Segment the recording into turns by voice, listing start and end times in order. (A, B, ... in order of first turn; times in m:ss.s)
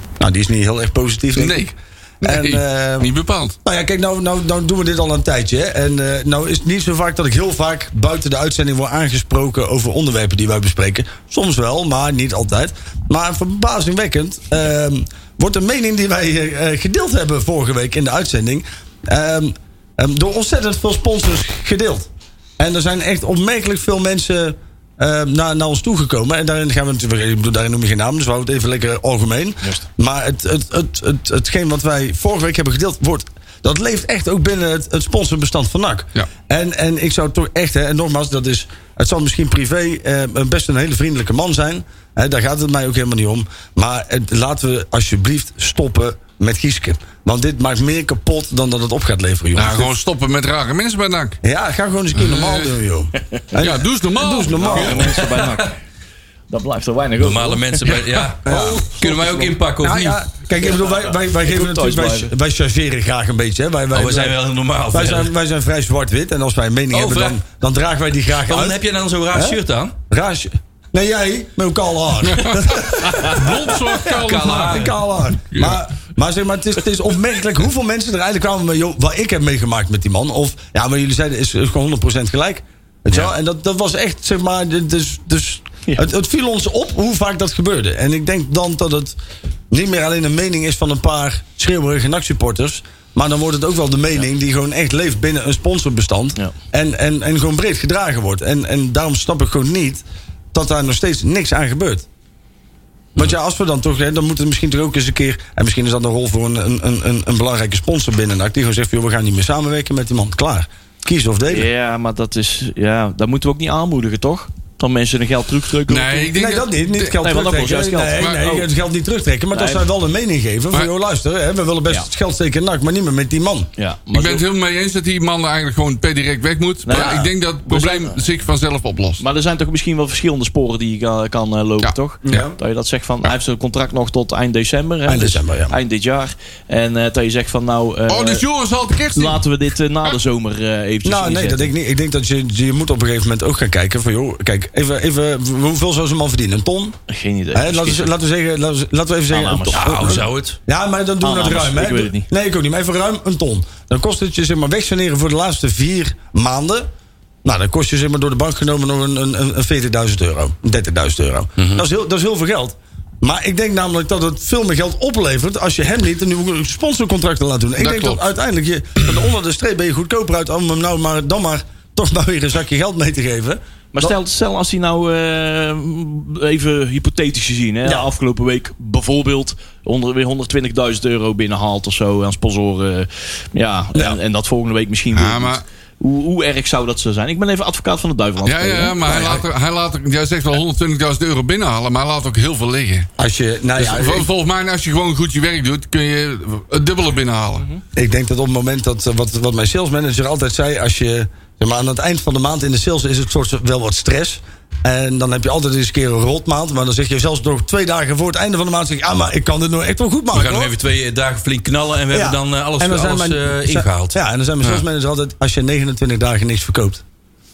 0:00.2-0:03.1 A
0:01.4-0:03.6 B
0:03.6-0:49.9 A
0:49.6-0:51.4 B
0:51.4-0:55.2 A
0:52.2-0:52.8 B
0:53.6-0:55.0 B
0:54.6-0:55.8 C
0:54.9-0:55.6 D
0:56.5-0:59.6 C
0:57.2-1:00.2 D
0:58.4-0:58.9 A
0:59.8-1:04.4 A
1:00.6-1:02.3 C
1:03.9-1:05.3 D
1:04.9-1:13.7 A
1:06.9-1:07.4 D
1:08.5-1:09.9 D
1:12.3-1:14.9 B
1:14.1-1:14.9 D
1:14.3-1:29.2 A
1:15.5-1:15.8 B
1:29.7-1:40.0 A
1:40.5-1:42.1 A
1:43.2-1:51.7 A
1:51.5-1:56.3 C
1:55.9-1:57.2 B
1:56.3-2:03.7 A
1:57.2-1:58.6 C
1:58.2-1:58.6 B
1:59.5-1:59.9 C
2:03.8-2:04.4 C
2:04.1-2:09.2 B
2:06.8-2:08.3 C
2:06.9-2:07.3 A
2:09.2-2:18.4 C
2:11.8-2:12.5 B
2:12.2-2:12.6 A
2:15.1-2:15.8 A
2:18.1-2:19.4 B
2:19.2-2:21.7 C
2:21.0-2:27.0 A
2:27.1-2:28.1 C
2:27.5-2:36.9 A
2:29.3-2:30.2 C
2:29.7-2:30.6 D
2:31.2-2:32.3 C
2:37.4-2:54.1 A
2:41.6-2:41.8 D
2:47.8-2:48.2 B
2:53.9-3:09.0 C
3:05.1-3:05.6 B
3:08.4-3:13.1 B
3:09.0-3:09.4 A
3:13.2-3:14.3 A
3:13.8-3:17.7 B
3:18.0-3:30.7 A
3:30.3-3:34.8 D
3:32.1-3:37.0 A